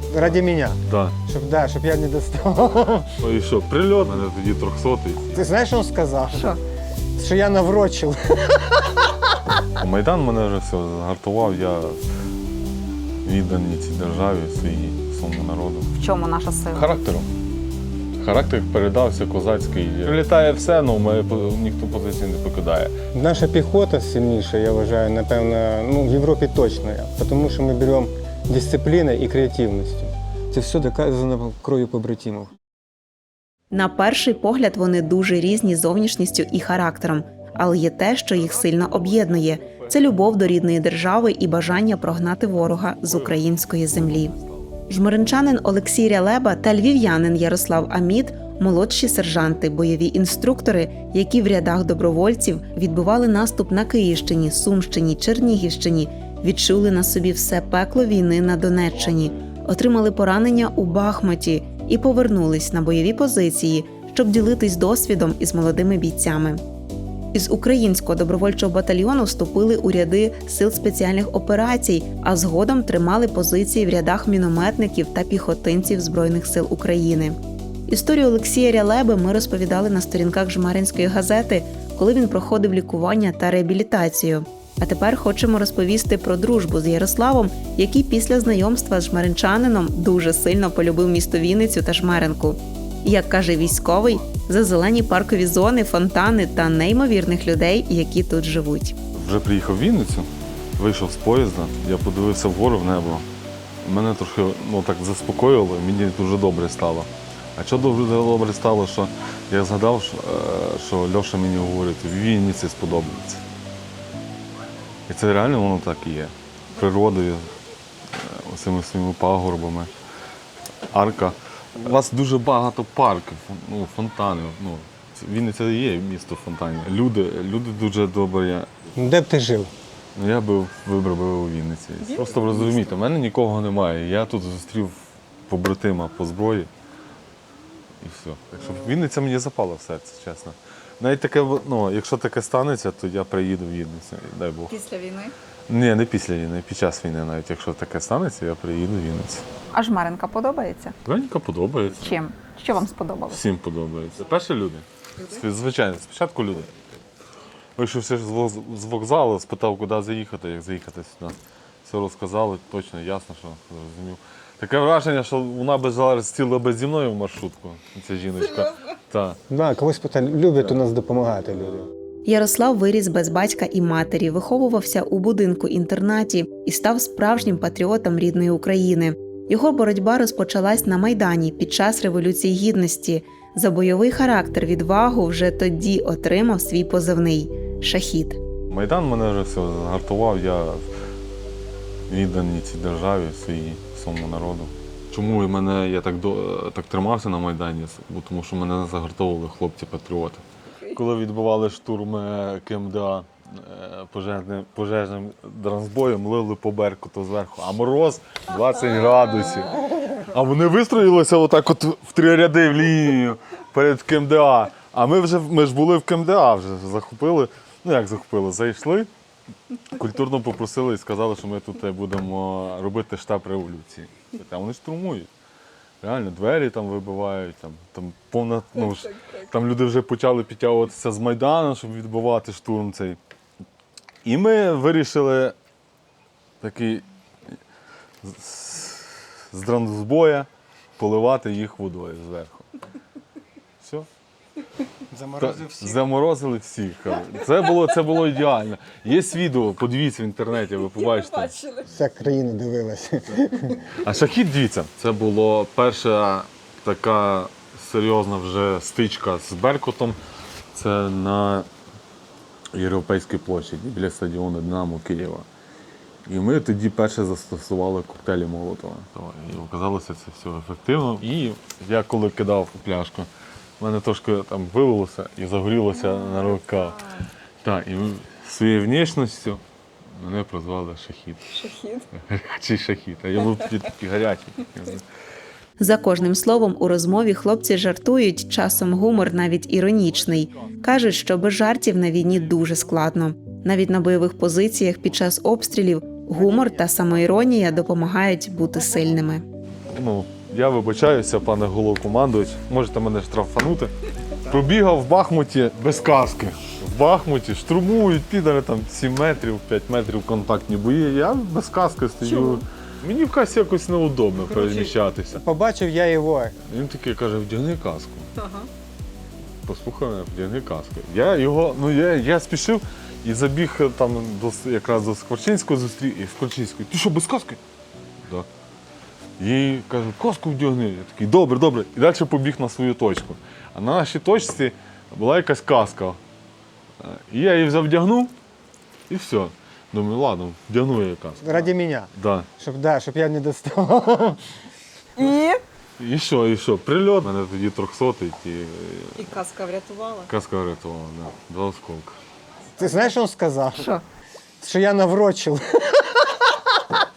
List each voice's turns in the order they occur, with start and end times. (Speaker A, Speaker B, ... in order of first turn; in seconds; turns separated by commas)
Speaker A: 0.1-3.2, Speaker B: 0.8-1.1, Speaker B: 3.2-5.4, Speaker A: 5.3-6.5, Speaker C: 6.3-6.6, Speaker A: 7.2-9.2, Speaker B: 9.8-12.0, Speaker B: 13.2-15.9, Speaker C: 15.9-16.9, Speaker B: 16.7-17.3, Speaker B: 18.2-22.9, Speaker A: 23.1-32.5, Speaker D: 33.7-44.3, Speaker B: 38.5-40.2, Speaker B: 42.7-44.7, Speaker D: 44.9-66.6, Speaker D: 67.3-77.4, Speaker D: 77.9-98.9, Speaker B: 99.1-103.3, Speaker B: 103.8-113.4, Speaker B: 115.1-117.5, Speaker B: 118.1-119.9, Speaker B: 120.9-128.7, Speaker A: 128.9-129.7, Speaker B: 130.1-136.7, Speaker C: 132.1-132.5, Speaker B: 138.0-144.8, Speaker C: 144.7-145.3, Speaker B: 145.7-149.5, Speaker C: 149.7-150.9, Speaker B: 151.0-152.2, Speaker C: 151.9-153.4, Speaker B: 153.3-156.7, Speaker B: 157.8-169.4, Speaker A: 169.5-171.9, Speaker D: 172.2-188.4, Speaker B: 188.7-190.8, Speaker B: 192.1-219.1, Speaker B: 219.8-225.3, Speaker B: 226.0-233.2, Speaker B: 234.2-235.6, Speaker B: 236.6-237.0, Speaker B: 238.2-242.7, Speaker B: 243.8-244.1, Speaker A: 245.1-246.0, Speaker B: 245.4-251.6, Speaker A: 251.8-253.9, Speaker B: 253.9-260.2, Speaker B: 260.7-261.7, Speaker B: 262.7-265.5, Speaker B: 266.2-273.3, Speaker B: 273.8-277.0, Speaker C: 276.0-277.2, Speaker B: 277.6-279.6, Speaker B: 280.1-281.6, Speaker C: 281.5-282.1, Speaker B: 282.1-285.0, Speaker D: 285.8-299.4, Speaker B: 299.9-315.4, Speaker C: 312.2-312.6, Speaker A: 315.3-316.6, Speaker B: 316.6-318.3, Speaker C: 318.4-318.7, Speaker B: 319.6-327.6, Speaker B: 329.4-336.2, Speaker B: 337.0-338.3, Speaker B: 339.1-342.5, Speaker A: 341.4-344.4, Speaker C: 345.2-345.6, Speaker B: 346.0-349.4, Speaker C: 349.2-350.3, Speaker B: 350.3-352.2, Speaker A: 352.8-353.9, Speaker A: 354.6-356.5